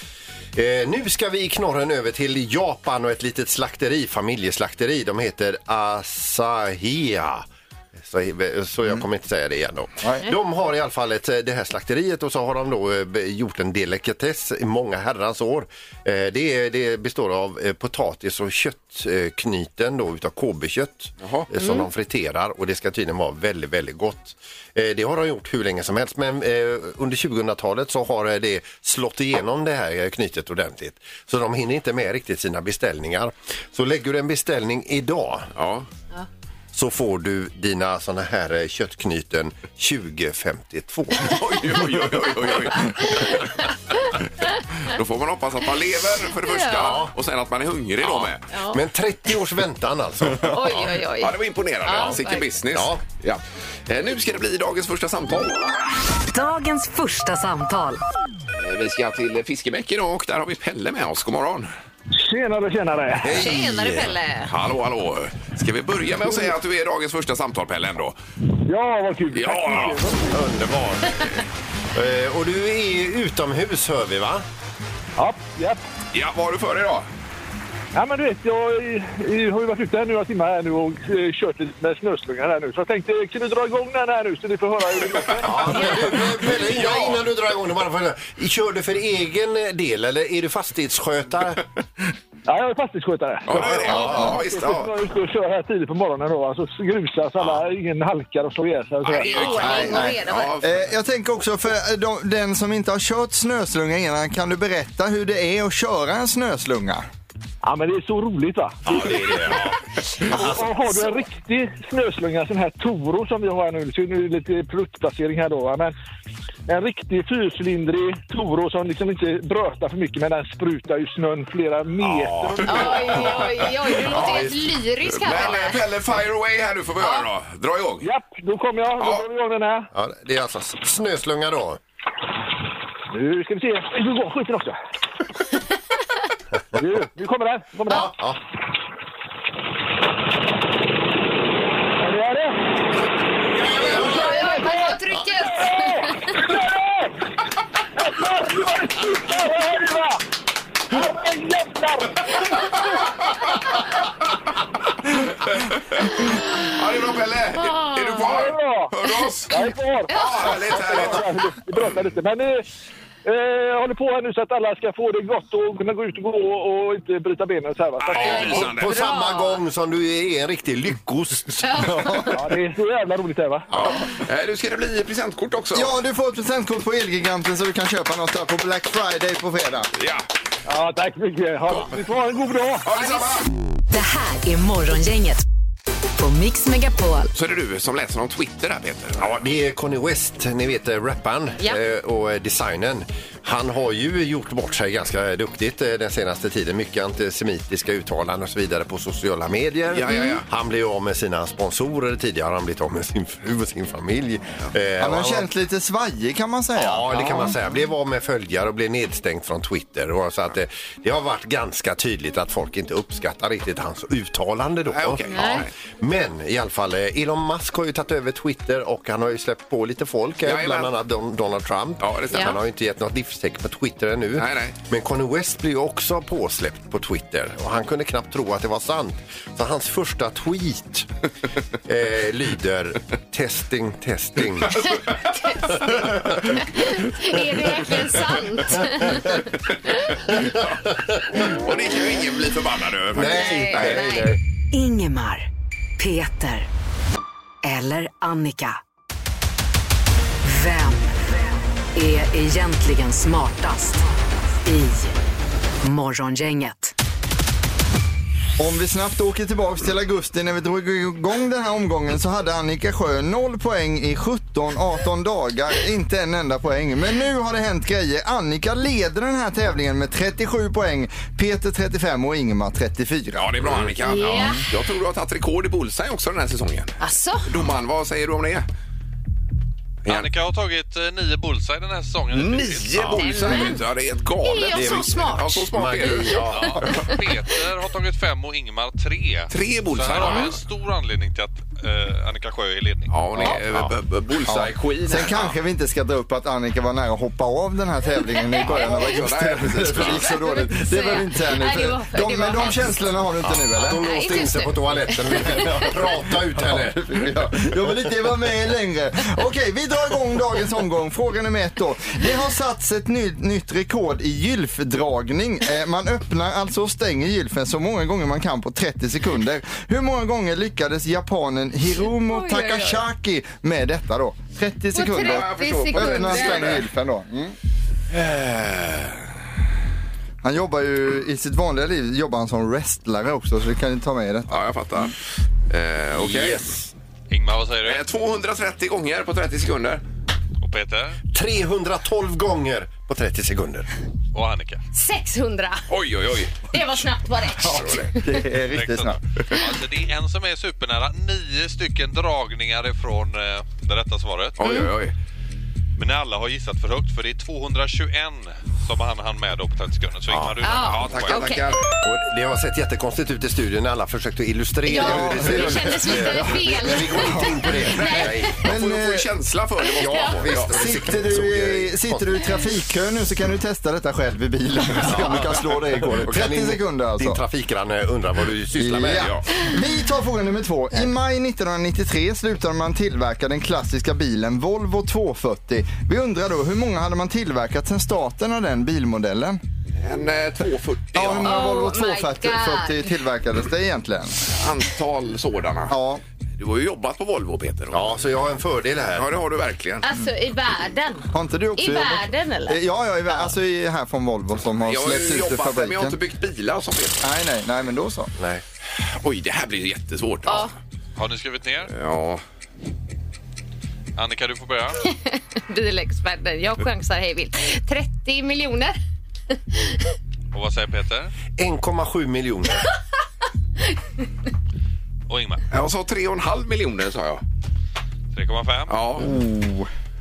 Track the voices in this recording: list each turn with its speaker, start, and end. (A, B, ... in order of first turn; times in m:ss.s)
0:00.6-0:07.5 A
0:08.0-0:35.5 A
0:21.2-0:21.5 B
0:21.6-0:21.8 C
0:35.6-0:35.9 B
0:36.7-0:42.5 A
0:41.2-0:43.5 B
0:42.9-0:43.5 C
0:44.8-0:48.4 B
0:46.4-0:47.0 C
0:46.7-0:47.1 A
0:48.5-0:48.8 C
0:48.7-0:50.8 A
0:50.4-0:52.5 C
0:51.2-0:55.6 B
0:51.9-0:53.0 A
0:56.3-0:58.0 D
0:58.6-1:01.7 B
1:02.2-1:03.4 E
1:03.2-1:04.1 A
1:03.3-1:04.5 C
1:04.5-1:08.2 B
1:08.7-1:10.3 E
1:09.3-1:10.0 B
1:10.2-1:11.3 A
1:11.9-1:14.4 A
1:15.2-1:15.8 E
1:16.1-1:17.1 B
1:17.9-1:25.6 E
1:25.4-1:31.6 A
1:25.5-1:27.2 B
1:32.5-1:39.8 E
1:33.5-1:34.9 B
1:33.7-1:34.4 A
1:34.0-1:34.3 F
1:39.0-1:40.7 B
1:39.2-1:40.6 C
1:39.6-1:47.0 F
1:47.6-1:49.4 E
1:48.9-1:50.7 A
1:49.1-1:49.4 B
1:50.3-1:55.9 E
1:56.7-2:03.4 E
2:02.5-2:03.5 B
2:02.7-2:05.8 C
2:04.0-2:04.6 A
2:04.1-2:04.5 B
2:05.1-2:08.1 B
2:08.0-2:09.9 E
2:09.9-2:11.8 A
2:13.1-2:14.8 E
2:16.8-2:18.1 E
2:17.9-2:18.4 A
2:22.0-2:22.6 E
2:23.7-2:24.1 A
2:23.9-2:25.0 E
2:23.9-2:26.5 C
2:25.7-2:27.1 E
2:28.0-2:30.2 E
2:30.9-2:32.4 E
2:35.4-2:41.5 B
2:37.6-2:38.5 C
2:38.2-2:38.9 E
2:39.5-2:42.7 E
2:40.1-2:40.5 C
2:43.2-2:48.7 E
2:48.0-2:49.0 B
2:48.2-2:49.6 C
2:48.3-2:52.3 A
2:51.6-2:52.4 C
2:52.3-2:53.7 E
2:53.7-2:56.0 B
2:55.8-2:59.9 F
3:00.0-3:00.3 B
3:00.7-3:02.9 E
3:02.8-3:03.4 B
3:03.0-3:03.3 C
3:03.9-3:05.4 D
3:06.2-3:07.3 D
3:07.3-3:09.4 B
3:09.2-3:25.5 A
3:19.9-3:20.5 B
3:20.1-3:20.4 C
3:25.0-3:27.4 F
3:26.8-3:51.1 A
3:34.9-3:35.7 B
3:35.3-3:35.6 C
3:40.4-3:40.9 B
3:42.0-3:42.5 B
3:44.4-3:44.8 B
3:51.9-3:54.9 A
3:54.8-4:00.2 C
3:55.8-3:56.6 A
4:00.4-4:01.4 A
4:01.4-4:04.2 B
4:03.1-4:04.4 A
4:03.2-4:04.3 C
4:04.7-4:05.5 D
4:06.0-4:06.7 D
4:07.6-4:08.8 D
4:10.4-4:11.2 D
4:12.0-4:14.0 D
4:14.6-4:15.2 D
4:15.8-4:16.9 D
4:18.6-4:33.9 F
4:33.4-4:38.7 B
4:33.6-4:33.9 A
4:34.0-4:34.6 C
4:37.0-4:37.5 C
4:40.0-4:40.3 B
4:40.1-4:43.6 G
4:42.3-4:47.1 B
4:43.0-4:43.2 A
4:43.2-4:43.8 C
4:44.4-4:45.7 C
4:44.7-4:46.9 A
4:46.5-4:53.1 G
4:49.5-4:50.6 B
4:53.1-4:55.6 B
4:53.5-4:53.9 A
4:54.5-5:04.0 F
4:58.4-4:59.0 C
4:58.6-5:00.4 B
5:00.1-5:02.9 C
5:03.4-5:07.2 A
5:03.9-5:06.1 C
5:05.6-5:06.0 F
5:06.5-5:27.6 F
5:07.8-5:08.1 A
5:21.9-5:23.0 C
5:24.9-5:26.8 C
5:25.2-5:26.8 B
5:28.1-5:29.2 B
5:30.4-5:34.6 F
5:34.5-5:35.2 B
5:35.7-5:36.6 B
5:36.1-5:36.9 A
5:37.3-5:38.0 G
5:37.8-5:40.0 B
5:40.6-5:41.2 G
5:41.3-5:43.9 A
5:44.3-5:44.8 G
5:44.9-5:45.8 C
5:45.9-5:46.6 B
5:46.7-5:48.3 C
5:47.6-5:48.1 B
5:47.8-5:49.2 F
5:48.7-5:54.6 G
5:54.6-5:55.2 B
5:54.6-5:54.9 C
5:56.0-6:01.6 G
6:00.3-6:00.6 A
6:00.6-6:01.7 C
6:00.7-6:01.8 B
6:02.0-6:08.5 A
6:04.8-6:08.6 C
6:04.9-6:07.9 F
6:07.9-6:10.9 B
6:08.6-6:09.3 F
6:09.8-6:10.4 C
6:09.9-6:12.4 A
6:10.6-6:17.4 F
6:15.0-6:15.6 A
6:16.2-6:19.4 A
6:18.8-6:29.6 F
6:19.1-6:19.5 B
6:30.0-6:31.6 B
6:31.1-6:34.5 F
6:31.4-6:33.1 C
6:34.5-6:36.0 B
6:35.9-6:36.2 F
6:36.6-6:38.1 B
6:37.9-6:39.3 A
6:39.2-6:40.1 B
6:40.0-6:43.5 C
6:41.3-6:46.2 F
6:44.8-6:47.2 B
6:47.2-6:48.3 F
6:48.4-6:48.6 A
6:49.2-6:50.7 B
6:50.5-6:50.7 C
6:51.2-6:51.9 G
6:51.9-6:52.4 B
6:54.2-6:55.0 G
6:55.0-6:59.0 C
7:00.5-7:01.3 G
7:01.6-7:02.9 A
7:05.3-7:05.6 G
7:05.7-7:07.4 B
7:08.3-7:09.0 G
7:08.9-7:09.3 B
7:09.4-7:09.9 F